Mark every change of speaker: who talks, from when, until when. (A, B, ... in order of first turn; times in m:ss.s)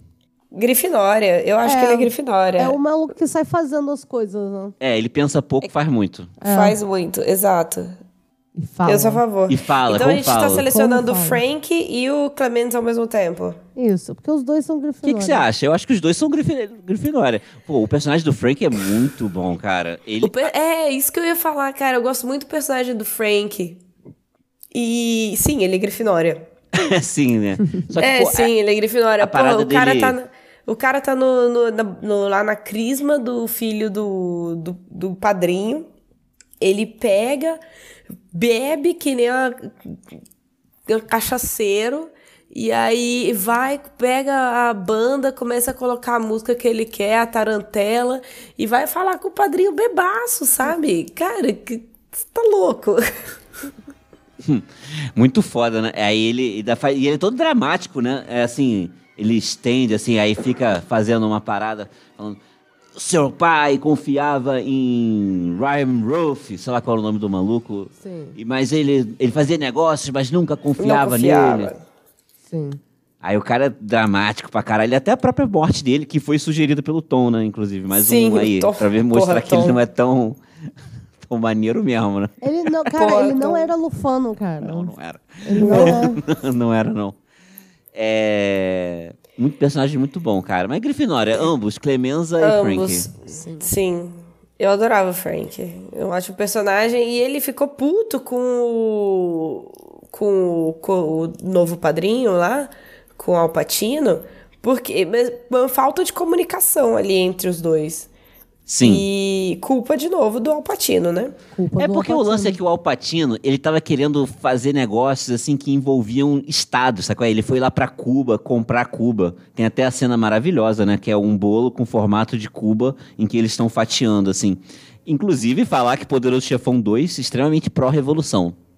0:00.5-0:02.8 A
0:01.6-0:04.7 B
0:04.8-0:06.4 C
0:06.4-0:06.8 B
0:06.4-0:08.0 A
0:08.6-0:09.2 B
0:08.9-0:13.6 A
0:09.5-0:10.7 C
0:10.6-0:11.4 B
0:13.8-0:15.4 B
0:15.0-0:20.5 C
0:20.2-0:23.8 A
0:24.7-0:26.4 A
0:26.7-0:28.5 C
0:28.0-0:35.9 A
0:29.2-0:30.2 C
0:36.6-0:37.6 A
0:38.3-0:40.0 A
0:40.9-0:53.0 A
0:54.4-1:02.4 C
1:02.9-1:11.7 C
1:08.0-1:08.4 B
1:10.8-1:11.8 A
1:12.5-1:12.8 B
1:13.2-1:20.4 C
1:17.9-1:19.8 A
1:21.2-1:22.3 C
1:22.4-1:24.9 B
1:22.9-1:23.7 A
1:24.6-1:27.2 C
1:25.4-1:26.2 B
1:25.6-1:26.0 A
1:27.9-1:33.1 C
1:32.4-1:48.1 A
1:33.3-1:33.7 B
1:48.7-1:49.1 C
1:48.8-1:51.4 A
1:51.5-1:52.6 B
1:51.8-2:08.6 C